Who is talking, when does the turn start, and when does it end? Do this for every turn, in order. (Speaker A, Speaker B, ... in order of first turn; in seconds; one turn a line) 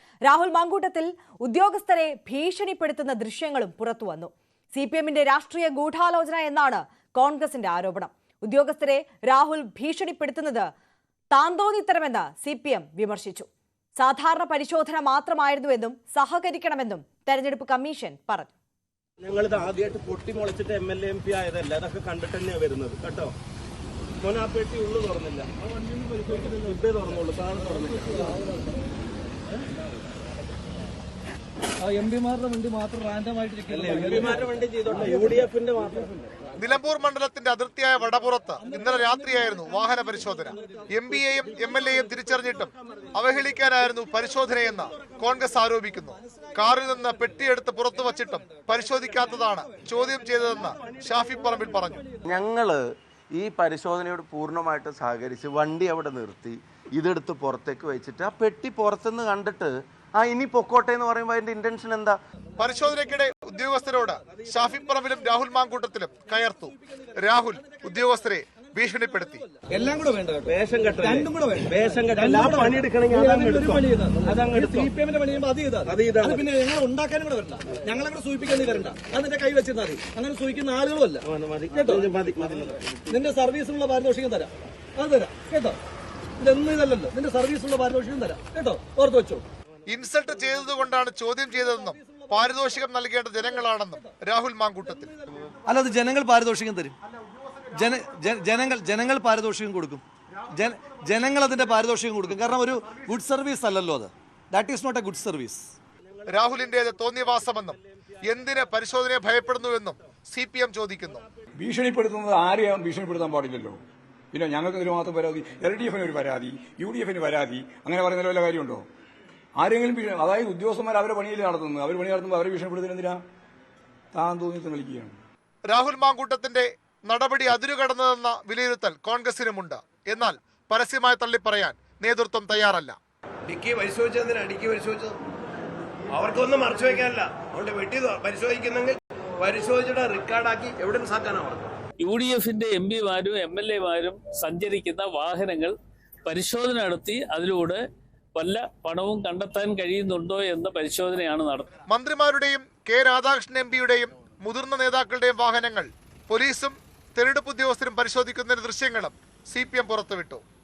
Speaker A: 0.3-10.7
Speaker A: 11.3-18.5
Speaker B: 19.2-23.4
Speaker B: 24.2-25.5
Speaker B: 26.2-28.3
Speaker C: 31.8-34.4
Speaker B: 33.7-36.3
Speaker C: 35.1-35.4
Speaker D: 36.6-52.1
Speaker E: 52.2-62.2
Speaker D: 62.6-69.5
Speaker C: 69.6-81.2
Speaker B: 70.5-74.9
Speaker B: 75.8-76.5
Speaker B: 81.3-83.0
Speaker C: 83.1-85.8
Speaker C: 86.4-89.4
Speaker D: 89.9-95.2
Speaker F: 95.7-97.0
Speaker F: 97.7-105.8
Speaker D: 106.3-111.2
Speaker G: 111.6-113.8
Speaker G: 114.3-118.8
Speaker G: 119.6-123.2
Speaker G: 124.1-125.2
Speaker D: 125.7-133.0
Speaker H: 133.5-135.2
Speaker H: 136.1-141.7
Speaker I: 142.0-145.7
Speaker I: 146.3-147.8
Speaker I: 148.3-151.7
Speaker D: 151.9-160.4